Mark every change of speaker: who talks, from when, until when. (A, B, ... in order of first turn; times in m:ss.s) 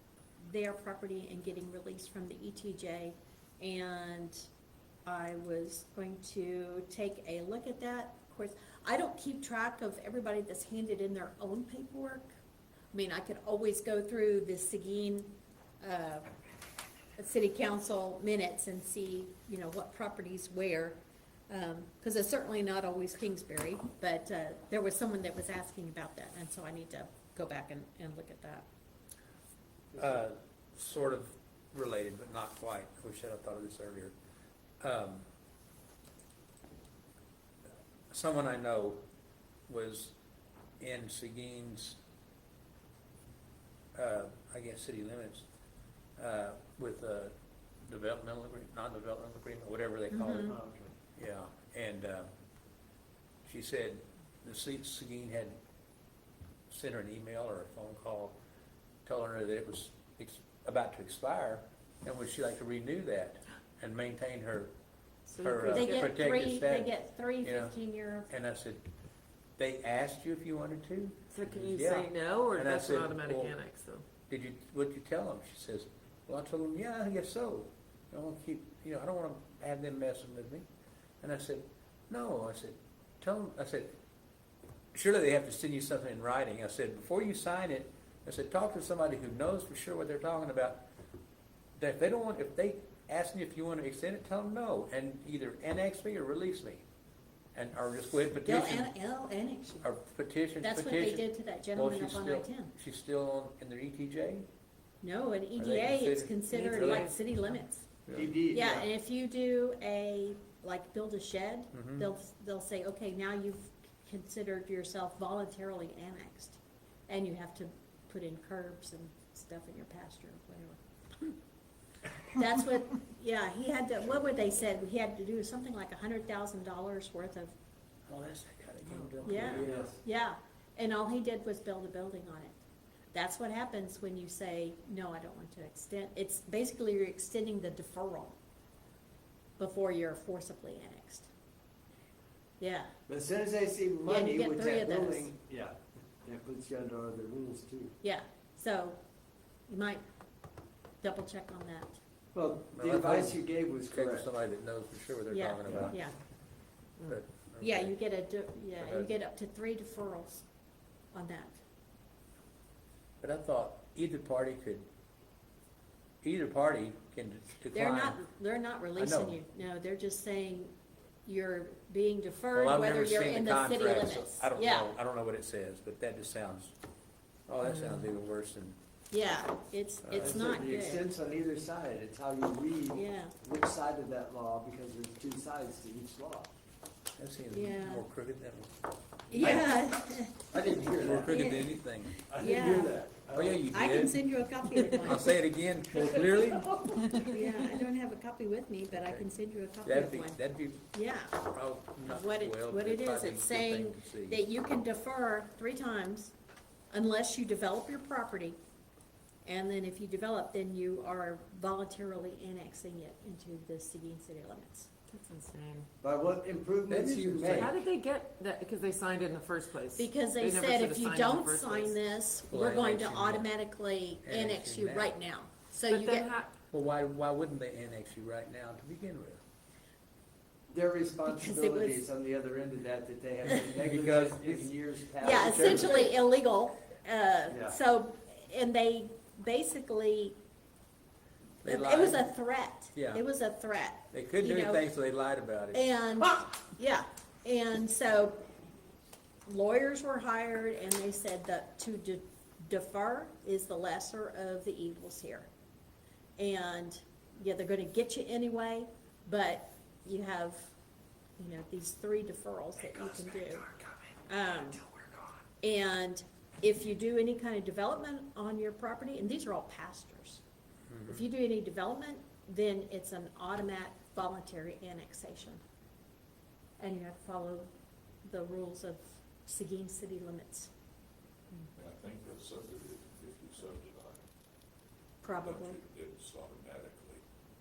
0:00.4-0:04.5 A
0:05.0-0:12.3 A
0:12.9-0:16.3 A
0:17.2-0:28.7 A
0:29.9-0:34.1 B
0:34.8-0:35.2 B
0:38.1-0:39.0 B
0:39.7-0:40.1 B
0:40.8-0:42.0 B
0:43.9-0:45.4 B
0:46.2-0:47.3 B
0:47.8-0:50.6 B
0:50.1-0:50.5 A
0:50.5-0:50.9 C
0:51.2-0:52.3 B
0:53.4-0:55.6 B
0:56.7-0:58.4 B
0:59.0-1:04.7 B
1:05.3-1:06.1 D
1:05.4-1:07.8 B
1:05.7-1:08.3 A
1:08.3-1:08.8 B
1:09.6-1:13.6 B
1:11.3-1:14.0 D
1:14.3-1:20.6 B
1:21.2-1:23.9 B
1:24.9-1:30.8 B
1:31.8-1:36.8 B
1:37.5-1:38.9 B
1:38.4-1:39.9 A
1:39.8-1:44.4 B
1:40.6-1:42.7 A
1:45.0-1:47.9 A
1:45.6-1:47.2 B
1:46.5-1:47.1 D
1:48.1-1:48.3 B
1:48.1-1:48.9 C
1:48.5-2:01.4 A
1:51.7-1:52.1 B
2:02.3-2:07.5 A
2:08.1-2:09.9 B
2:09.2-2:12.6 A
2:09.4-2:10.0 C
2:13.1-2:18.4 A
2:19.6-2:21.3 A
2:22.6-2:22.9 A
2:23.1-2:27.9 C
2:24.1-2:25.3 A
2:28.0-2:29.0 A
2:29.7-2:30.0 A
2:31.0-2:32.0 A
2:32.3-2:34.3 C
2:32.7-2:36.0 B
2:35.3-2:36.1 A
2:37.0-2:38.0 B
2:37.6-2:40.4 A
2:38.8-2:39.1 B
2:41.1-2:41.6 A
2:43.2-2:44.9 B
2:46.2-2:48.2 B
2:47.7-2:54.9 A
2:49.0-2:49.4 B
2:52.5-2:56.7 B
2:57.5-2:58.8 B
2:59.1-3:01.0 A
3:00.0-3:00.6 B
3:00.1-3:06.5 C
3:02.9-3:03.3 A
3:07.2-3:08.8 B
3:07.5-3:08.0 A
3:09.3-3:09.8 B
3:09.3-3:10.5 A
3:10.5-3:11.6 C
3:11.0-3:12.2 B
3:11.1-3:11.8 A
3:12.3-3:13.6 C
3:12.3-3:13.0 A
3:13.3-3:14.3 B
3:13.7-3:15.4 A
3:14.9-3:17.1 B
3:17.1-3:20.4 A
3:18.9-3:19.2 B
3:19.8-3:24.4 B
3:20.9-3:21.4 A
3:22.0-3:26.3 A
3:26.9-3:28.6 A
3:29.4-3:34.9 A
3:35.1-3:35.9 D
3:36.0-3:37.7 C
3:36.9-3:37.8 B
3:37.5-3:42.0 D
3:40.0-3:46.3 A
3:42.5-3:43.5 B
3:44.2-3:45.1 B
3:45.9-3:46.5 D
3:46.7-3:49.4 B
3:50.7-3:56.1 C
3:51.3-3:52.0 A
3:53.5-3:54.7 B
3:55.2-3:56.1 B
3:55.2-4:00.4 A
3:57.5-3:57.8 C
4:01.6-4:02.3 B
4:01.6-4:04.8 A
4:02.9-4:03.2 B
4:04.1-4:06.3 B
4:05.7-4:08.4 A
4:09.4-4:15.5 A
4:16.4-4:20.7 A
4:21.4-4:23.7 A
4:23.0-4:23.9 C
4:24.3-4:24.8 A
4:25.6-4:30.4 A
4:30.9-4:31.2 B
4:31.1-4:35.6 A
4:36.8-4:37.7 A
4:38.2-4:40.7 A
4:41.8-4:44.2 E
4:45.2-4:45.8 A
4:45.2-4:47.2 E